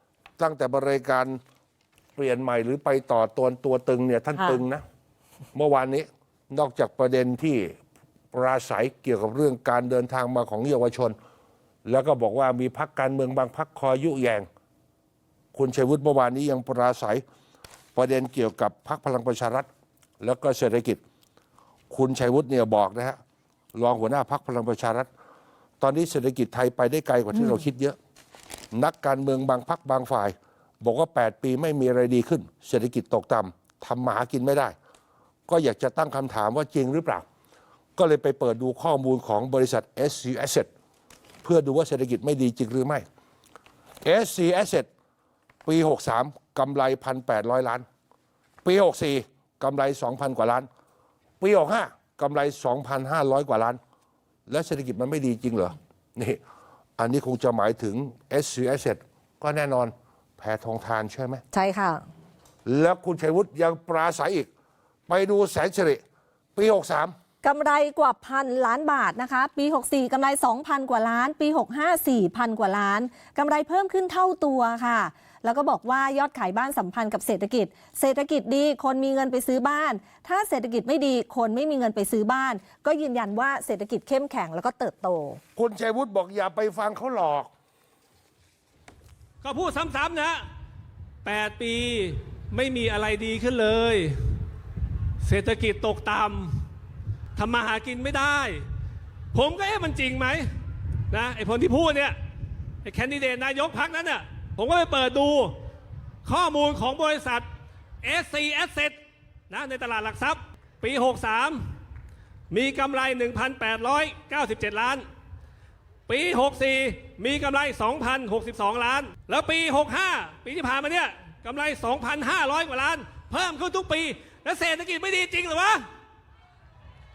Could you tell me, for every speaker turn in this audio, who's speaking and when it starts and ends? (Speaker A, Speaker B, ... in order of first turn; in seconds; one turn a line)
Speaker A: 0.4-1.4
Speaker A: 2.2-4.8
Speaker A: 5.5-7.8
Speaker A: 8.3-11.2
Speaker A: 11.8-14.5
Speaker A: 15.5-17.2
Speaker A: 17.9-19.7
Speaker A: 20.2-21.0
Speaker A: 21.9-23.2
Speaker A: 23.8-25.1
Speaker A: 25.8-28.0
Speaker A: 28.7-34.7
Speaker A: 35.5-37.2
Speaker A: 38.0-40.7
Speaker A: 41.4-43.0
Speaker A: 44.0-44.9
Speaker A: 45.6-47.8
Speaker A: 48.6-50.7
Speaker A: 51.4-53.8
Speaker A: 54.5-56.4
Speaker A: 57.0-61.4
Speaker B: 61.5-62.0
Speaker A: 62.6-64.5
Speaker A: 65.1-66.0
Speaker A: 66.5-67.1
Speaker B: 67.4-85.4
Speaker A: 85.5-87.5
Speaker C: 89.4-90.4
Speaker C: 91.2-94.2
Speaker C: 95.2-96.6
Speaker C: 97.4-98.7
Speaker C: 99.3-100.5
Speaker C: 101.1-102.2
Speaker C: 102.8-105.6
Speaker C: 106.2-107.5
Speaker C: 108.0-109.0
Speaker C: 109.5-111.6
Speaker C: 112.5-115.0
Speaker C: 116.1-125.8